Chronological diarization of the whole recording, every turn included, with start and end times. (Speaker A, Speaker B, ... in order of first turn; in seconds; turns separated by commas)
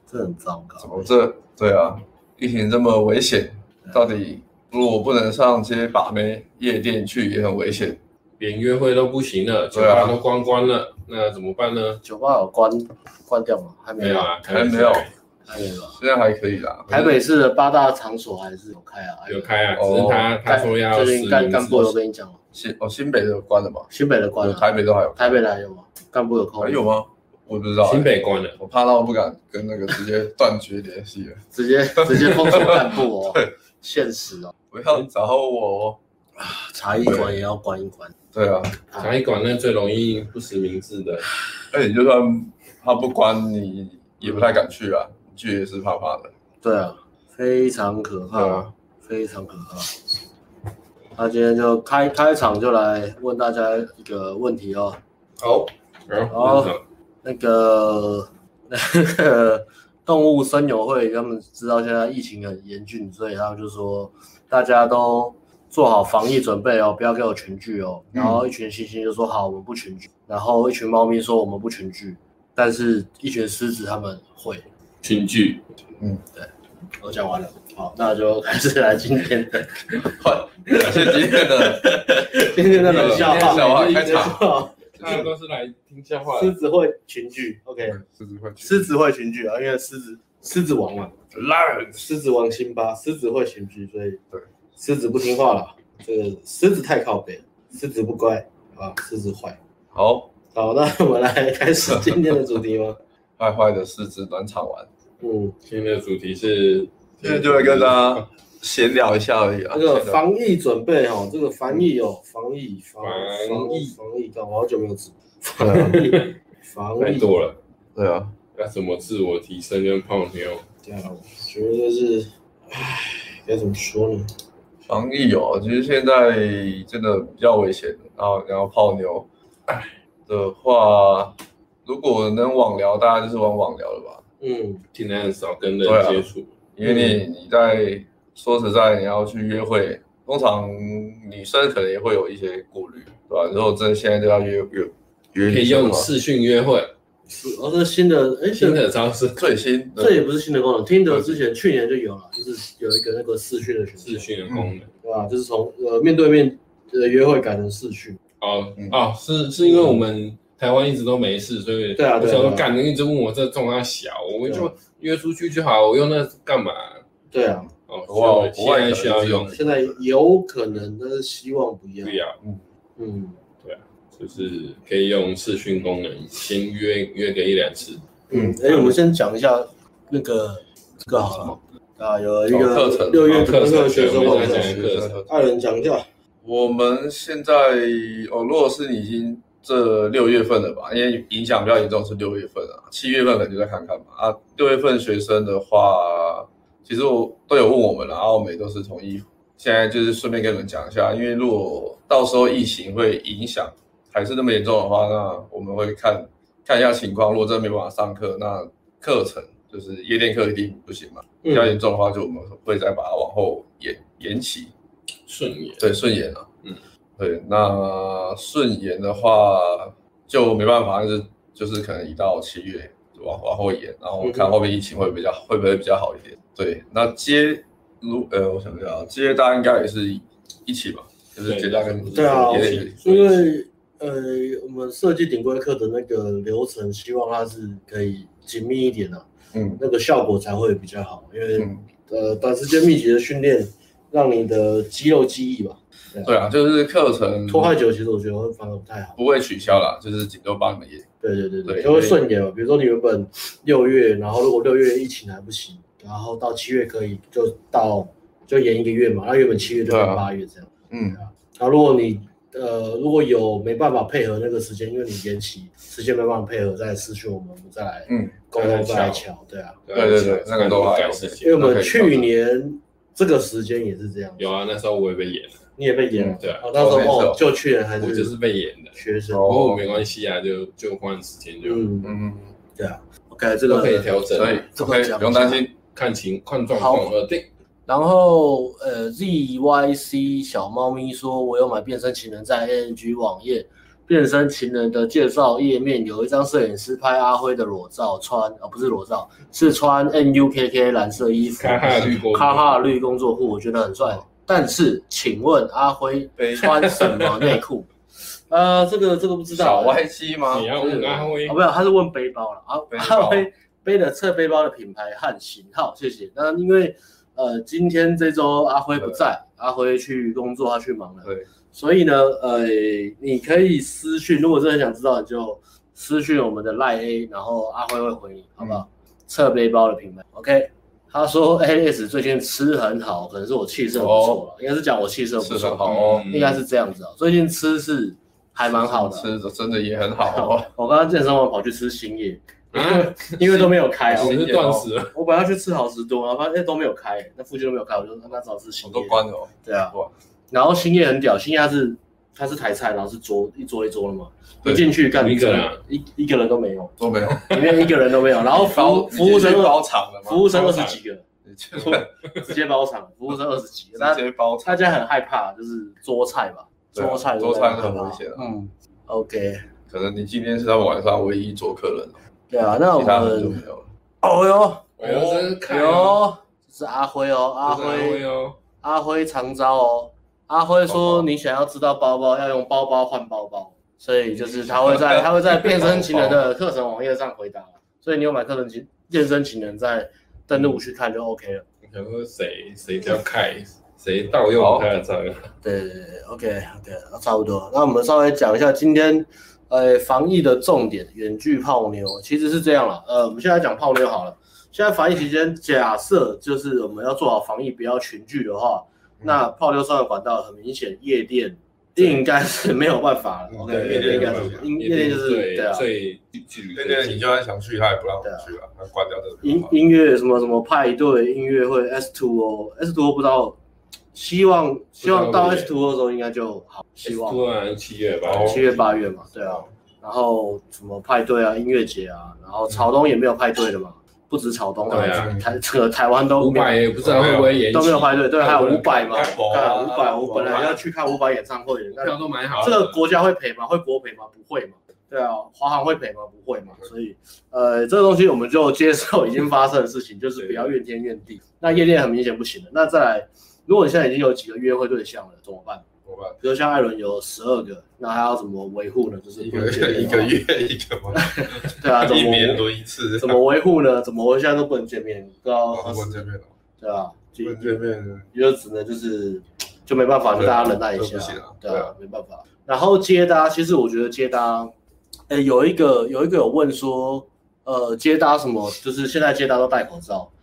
Speaker A: 0.1-1.1, Speaker B: 0.8-8.0, Speaker C: 8.4-12.0, Speaker B: 9.7-10.2, Speaker A: 12.0-14.3, Speaker C: 14.0-15.1, Speaker B: 14.5-15.1, Speaker A: 15.5-16.0, Speaker B: 15.9-17.2, Speaker A: 16.9-19.6, Speaker C: 19.3-21.9, Speaker B: 19.7-20.3, Speaker A: 20.4-22.4, Speaker B: 22.5-25.4, Speaker A: 23.9-26.8, Speaker B: 26.6-31.4, Speaker C: 27.8-28.6, Speaker A: 31.5-34.5, Speaker B: 32.0-33.5, Speaker B: 34.7-36.0, Speaker A: 36.4-38.1, Speaker B: 37.0-37.4, Speaker B: 38.3-38.8, Speaker C: 39.0-41.3, Speaker B: 41.7-46.3, Speaker A: 46.6-50.2, Speaker B: 48.3-48.7, Speaker A: 51.2-55.0, Speaker B: 55.4-55.7, Speaker C: 56.1-56.8, Speaker A: 56.3-74.7, Speaker B: 68.1-68.4, Speaker C: 75.0-75.7, Speaker A: 76.4-85.2, Speaker B: 80.0-82.0, Speaker B: 82.8-84.4, Speaker C: 82.8-84.3, Speaker B: 85.0-85.3, Speaker C: 85.0-86.6, Speaker A: 86.3-88.0, Speaker B: 87.9-88.9, Speaker A: 88.6-91.1, Speaker B: 91.3-92.1, Speaker A: 92.0-94.2, Speaker A: 94.8-99.6, Speaker B: 99.9-100.3, Speaker A: 100.5-103.0, Speaker B: 101.9-102.4, Speaker B: 103.4-104.9, Speaker A: 105.2-105.5, Speaker C: 105.7-108.2, Speaker B: 107.2-110.2, Speaker A: 109.7-117.3, Speaker C: 113.0-114.0, Speaker C: 115.6-116.3, Speaker C: 117.0-117.6, Speaker B: 118.0-118.3, Speaker C: 118.5-120.7, Speaker A: 120.8-124.3, Speaker B: 124.9-129.3, Speaker B: 130.3-134.2, Speaker A: 134.4-134.8, Speaker C: 134.9-136.5, Speaker B: 135.8-146.1, Speaker C: 145.5-146.9, Speaker A: 147.3-148.8, Speaker C: 148.6-149.4, Speaker B: 149.4-150.2, Speaker A: 150.0-154.3, Speaker B: 151.1-151.4, Speaker C: 154.0-154.9, Speaker B: 154.5-154.7, Speaker A: 155.0-158.2, Speaker C: 158.4-167.0, Speaker A: 159.6-160.0, Speaker A: 162.0-162.7, Speaker A: 164.4-164.7, Speaker A: 167.3-167.7, Speaker C: 167.9-169.5, Speaker B: 168.1-170.0, Speaker A: 169.5-172.2, Speaker C: 172.0-172.4, Speaker A: 173.0-173.4, Speaker C: 173.6-178.0, Speaker A: 178.3-186.1, Speaker B: 178.3-178.6, Speaker B: 182.5-185.3, Speaker C: 183.3-185.2, Speaker B: 186.4-214.7, Speaker C: 215.3-215.9, Speaker B: 215.8-216.5, Speaker B: 217.2-233.1, Speaker A: 224.2-224.5, Speaker C: 231.4-233.4, Speaker A: 232.1-239.3, Speaker B: 239.5-239.8, Speaker A: 239.8-246.3, Speaker B: 246.2-247.8, Speaker A: 247.5-249.2, Speaker B: 249.2-251.1, Speaker A: 251.2-269.8, Speaker B: 251.7-252.2, Speaker B: 259.9-260.2, Speaker B: 260.9-261.2, Speaker B: 268.1-268.3, Speaker C: 268.6-269.2, Speaker C: 269.9-271.5, Speaker B: 269.9-272.3, Speaker A: 271.4-274.5, Speaker C: 274.4-275.6, Speaker A: 275.8-278.3, Speaker B: 276.2-277.4, Speaker C: 276.4-276.7, Speaker C: 278.0-281.9, Speaker A: 278.9-279.5, Speaker B: 279.3-280.0, Speaker A: 281.6-282.1, Speaker B: 282.0-282.6, Speaker A: 282.8-284.1, Speaker C: 283.7-284.6, Speaker B: 284.3-285.8, Speaker A: 284.7-285.6, Speaker C: 285.9-287.5, Speaker A: 286.7-287.1, Speaker A: 287.9-310.0, Speaker C: 301.6-302.8, Speaker B: 306.4-306.7, Speaker C: 306.6-307.6, Speaker B: 309.5-310.7, Speaker C: 310.5-311.6, Speaker A: 310.8-339.3, Speaker B: 312.9-313.5, Speaker B: 333.9-334.4, Speaker B: 335.4-336.3, Speaker C: 335.9-336.6, Speaker B: 338.7-340.7, Speaker A: 340.2-344.4, Speaker C: 342.7-345.1, Speaker B: 344.1-344.9, Speaker A: 345.0-349.9, Speaker B: 348.8-350.1, Speaker A: 350.5-361.2, Speaker C: 355.1-355.8, Speaker B: 357.0-357.5, Speaker C: 357.5-357.8, Speaker B: 358.5-360.6, Speaker C: 360.5-361.0, Speaker B: 361.4-362.1, Speaker A: 361.8-369.6, Speaker B: 364.0-364.8, Speaker B: 366.9-368.5, Speaker B: 369.9-372.2, Speaker A: 372.5-373.6, Speaker B: 372.9-373.9, Speaker A: 374.2-375.0, Speaker C: 375.0-376.2, Speaker B: 375.0-375.5, Speaker A: 375.7-378.2, Speaker C: 377.7-378.6, Speaker A: 378.8-391.6, Speaker B: 380.9-381.3, Speaker B: 384.4-386.5, Speaker C: 391.9-395.5, Speaker B: 394.5-394.9, Speaker A: 395.6-415.9, Speaker B: 413.5-414.7, Speaker C: 413.7-417.2, Speaker B: 416.7-419.8, Speaker A: 418.2-418.5, Speaker A: 419.4-423.6, Speaker A: 424.1-427.4, Speaker C: 425.0-425.7, Speaker C: 427.0-428.7, Speaker B: 428.2-429.6, Speaker A: 428.4-436.8, Speaker C: 434.9-435.3, Speaker B: 435.2-435.5, Speaker C: 436.4-439.3, Speaker B: 437.0-437.6, Speaker A: 437.7-455.9, Speaker B: 439.1-440.8, Speaker C: 442.0-443.0, Speaker B: 456.1-456.4, Speaker A: 456.4-460.4, Speaker B: 459.4-463.4, Speaker A: 461.1-462.6, Speaker A: 463.2-466.2, Speaker B: 465.7-466.5, Speaker A: 466.8-467.8, Speaker B: 467.4-468.3, Speaker A: 468.3-474.7, Speaker B: 470.4-471.9, Speaker A: 475.3-480.3